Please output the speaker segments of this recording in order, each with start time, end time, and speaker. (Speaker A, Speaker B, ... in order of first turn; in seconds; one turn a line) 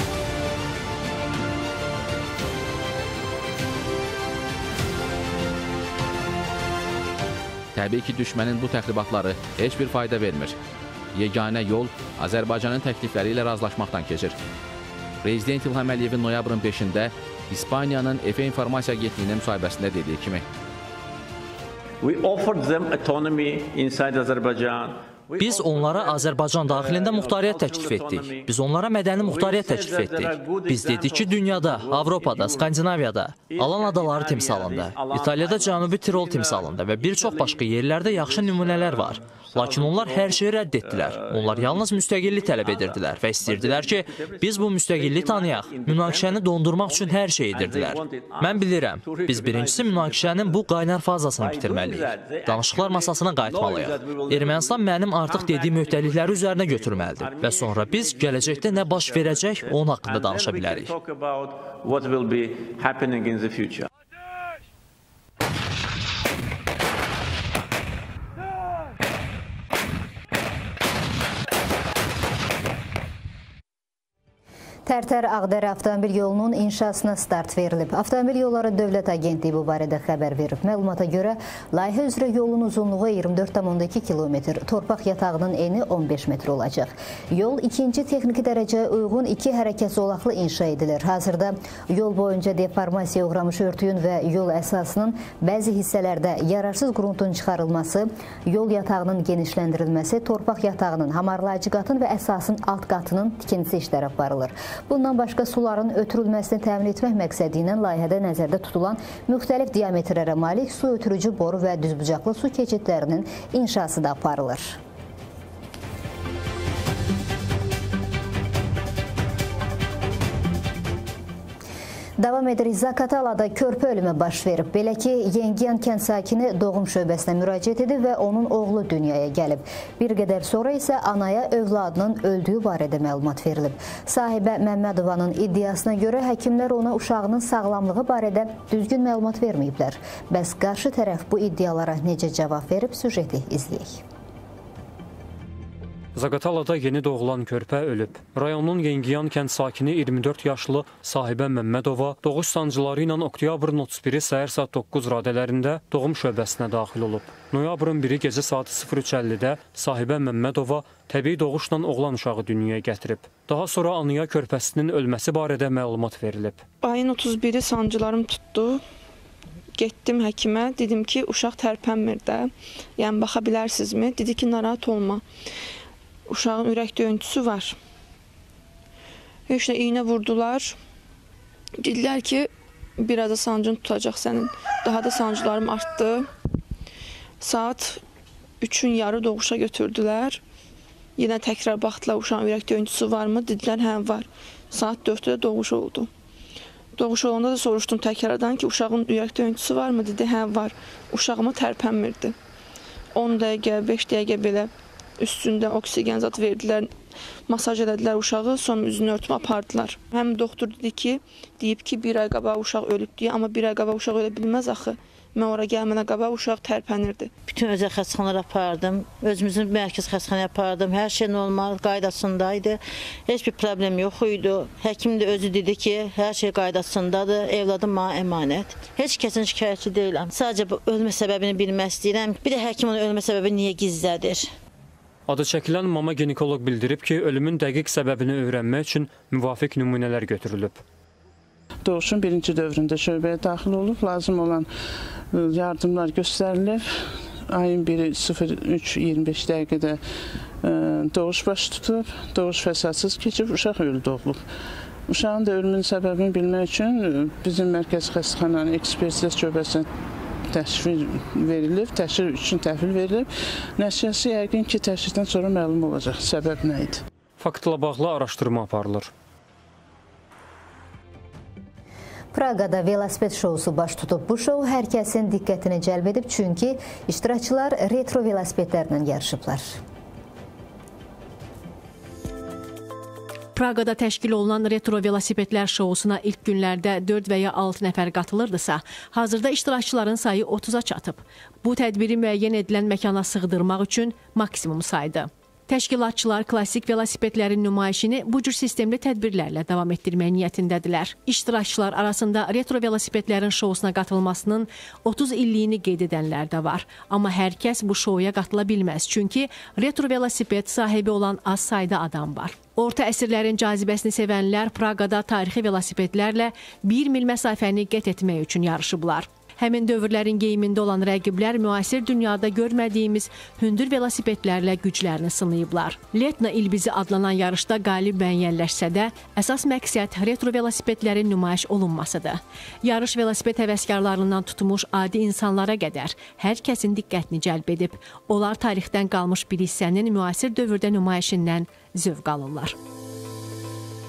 Speaker A: 7.7-10.6
Speaker A: 11.1-14.4
Speaker A: 15.2-20.4
Speaker B: 22.0-28.6
Speaker C: 25.4-60.9
Speaker B: 29.1-32.9
Speaker B: 33.5-50.7
Speaker B: 51.4-63.9
Speaker D: 74.9-114.8
Speaker D: 122.2-144.0
Speaker E: 146.2-166.6
Speaker F: 166.8-168.8
Speaker F: 169.8-175.2
Speaker F: 176.3-177.8
Speaker F: 179.5-180.8
Speaker F: 181.8-186.2
Speaker F: 187.4-188.0
Speaker F: 188.6-190.4
Speaker F: 191.2-196.1
Speaker F: 197.0-202.3
Speaker F: 203.2-206.9
Speaker F: 207.5-217.3
Speaker G: 217.5-234.5
Speaker E: 235.3-240.8
Speaker H: 241.8-244.7
Speaker H: 245.3-246.9
Speaker H: 247.5-250.0
Speaker H: 250.6-254.4
Speaker H: 255.1-259.9
Speaker H: 260.5-267.0
Speaker E: 267.4-269.1
Speaker D: 272.3-279.8
Speaker I: 283.6-342.8